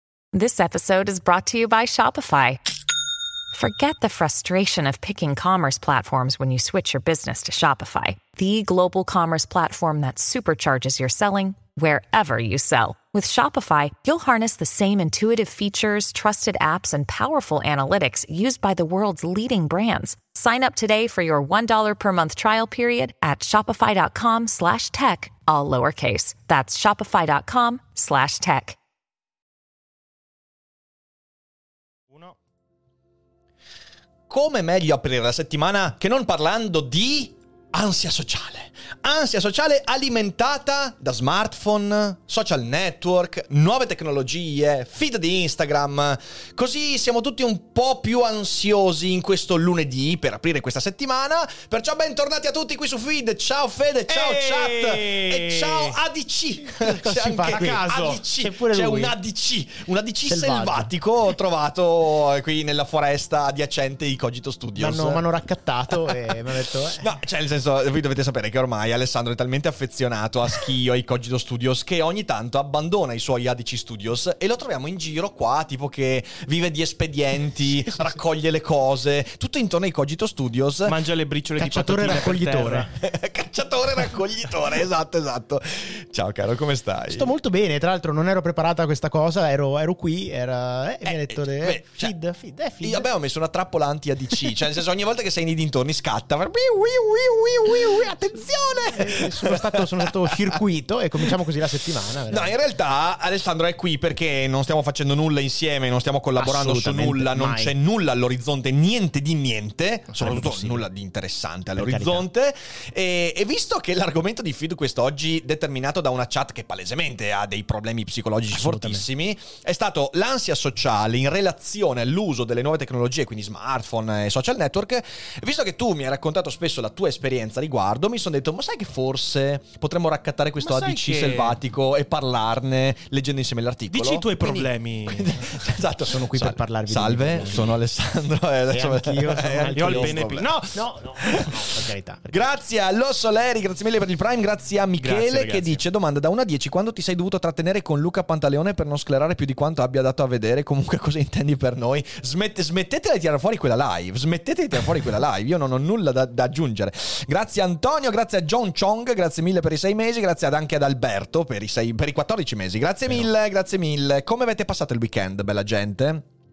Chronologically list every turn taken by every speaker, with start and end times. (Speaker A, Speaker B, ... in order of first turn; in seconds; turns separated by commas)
Speaker A: 0.3-2.6, Speaker A: 3.5-28.8, Speaker B: 34.3-65.2, Speaker C: 54.1-55.9, Speaker D: 56.8-59.2, Speaker C: 57.5-58.2, Speaker D: 60.2-60.9, Speaker D: 64.8-67.1, Speaker B: 66.9-81.0, Speaker C: 80.8-82.9, Speaker D: 81.6-82.9, Speaker B: 83.0-87.3, Speaker D: 87.1-93.1, Speaker B: 91.0-92.1, Speaker B: 92.8-100.5, Speaker D: 98.9-102.5, Speaker B: 102.3-140.5, Speaker D: 106.4-107.7, Speaker D: 110.1-110.8, Speaker D: 111.8-112.3, Speaker D: 118.5-119.0, Speaker C: 130.6-131.6, Speaker C: 133.9-135.6, Speaker D: 136.0-137.7, Speaker D: 138.7-142.5, Speaker C: 139.5-140.8, Speaker B: 142.3-166.2, Speaker C: 145.0-145.8